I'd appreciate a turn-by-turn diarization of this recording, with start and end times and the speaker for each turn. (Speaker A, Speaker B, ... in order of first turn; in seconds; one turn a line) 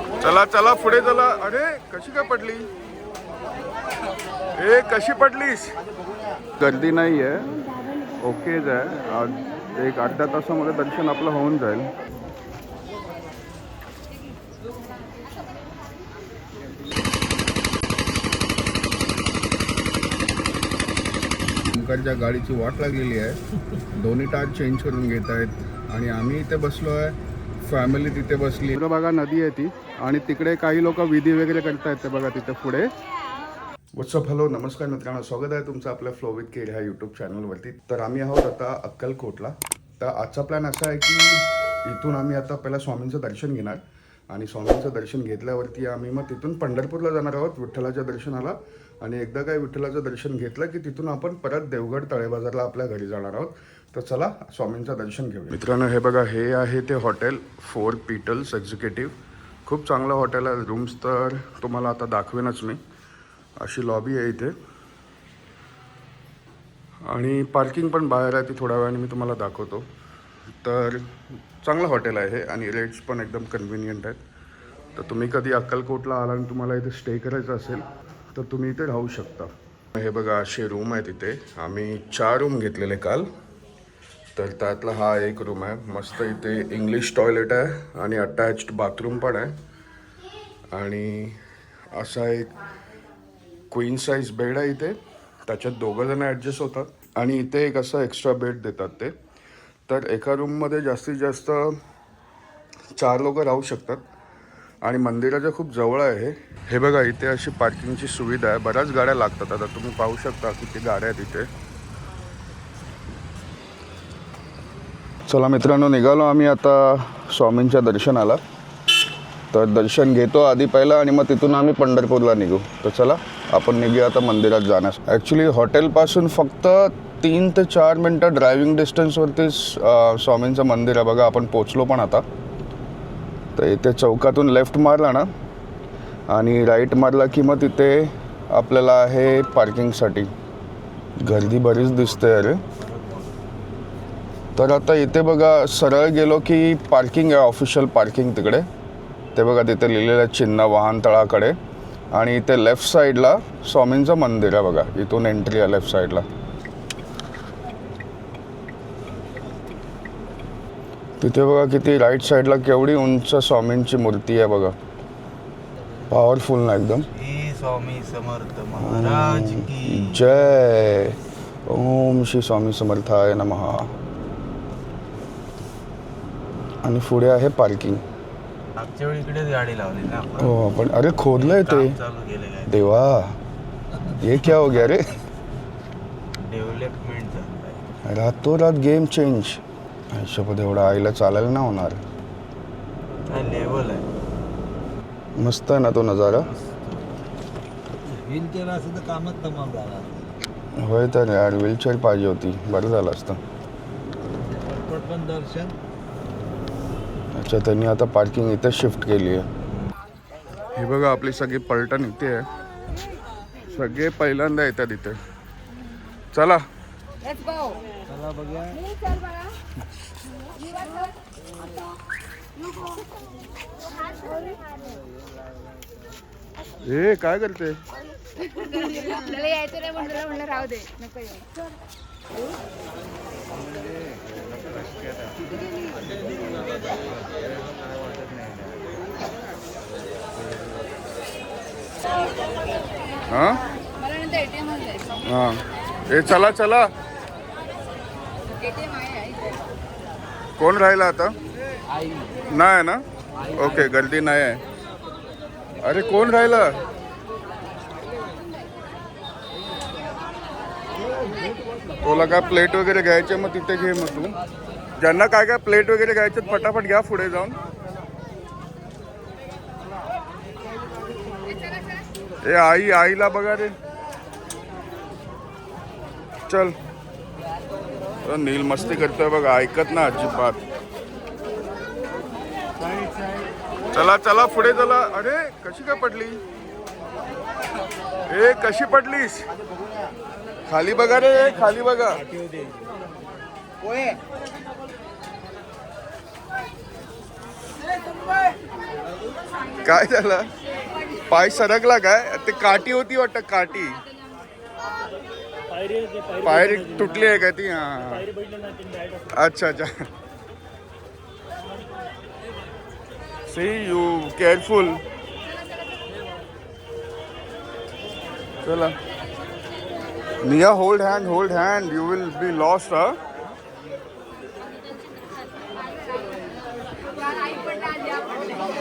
Speaker A: 0.2-2.7
Speaker A: 4.6-5.8
Speaker A: 6.6-7.5
Speaker A: 8.2-11.9
Speaker A: 21.7-23.4
Speaker A: 23.9-32.9
Speaker A: 34.0-59.1
Speaker A: 59.7-62.8
Speaker A: 63.6-64.5
Speaker A: 67.0-69.8
Speaker A: 70.6-74.2
Speaker A: 74.9-83.3
Speaker A: 84.3-89.5
Speaker A: 90.7-91.4
Speaker A: 91.9-92.5
Speaker A: 93.7-99.1
Speaker A: 99.9-101.8
Speaker A: 103.0-104.0
Speaker A: 104.8-111.5
Speaker A: 115.3-118.4
Speaker A: 119.5-132.2
Speaker A: 133.6-135.3
Speaker A: 136.3-140.3
Speaker A: 141.2-142.6
Speaker A: 144.6-148.7
Speaker A: 149.3-151.6
Speaker A: 152.1-156.2
Speaker A: 161.2-164.8
Speaker A: 166.1-167.1
Speaker B: 167.1-170.2
Speaker A: 168.8-173.9
Speaker A: 176.8-178.0
Speaker B: 178.8-180.5
Speaker A: 180.4-181.9
Speaker B: 181.3-182.7
Speaker A: 182.7-183.4
Speaker A: 184.1-185.1
Speaker B: 186.4-187.8
Speaker A: 188.0-192.0
Speaker B: 193.3-194.1
Speaker A: 195.4-196.5
Speaker B: 196.5-196.8
Speaker C: 198.0-200.3
Speaker A: 200.8-203.4
Speaker C: 204.4-205.8
Speaker A: 207.3-209.5
Speaker A: 210.8-212.5
Speaker A: 213.7-215.2
Speaker A: 216.3-216.6
Speaker C: 218.1-218.8
Speaker A: 226.8-227.8
Speaker D: 228.5-231.3
Speaker B: 235.0-235.3
Speaker B: 238.0-238.5
Speaker A: 243.3-243.6
Speaker B: 244.4-244.9
Speaker A: 245.2-246.9
Speaker D: 249.0-249.4
Speaker A: 250.6-251.3
Speaker A: 252.5-254.6
Speaker A: 255.8-256.8
Speaker A: 262.0-264.3
Speaker A: 265.0-267.6
Speaker A: 272.4-273.7
Speaker A: 276.5-276.8
Speaker A: 278.2-280.6
Speaker A: 283.9-286.4
Speaker A: 288.3-289.5
Speaker A: 290.7-292.3
Speaker A: 299.8-300.5
Speaker A: 301.3-304.0
Speaker A: 306.4-308.3
Speaker A: 309.3-310.1
Speaker A: 313.5-315.0
Speaker A: 318.6-319.0
Speaker A: 320.4-323.2
Speaker D: 327.2-328.5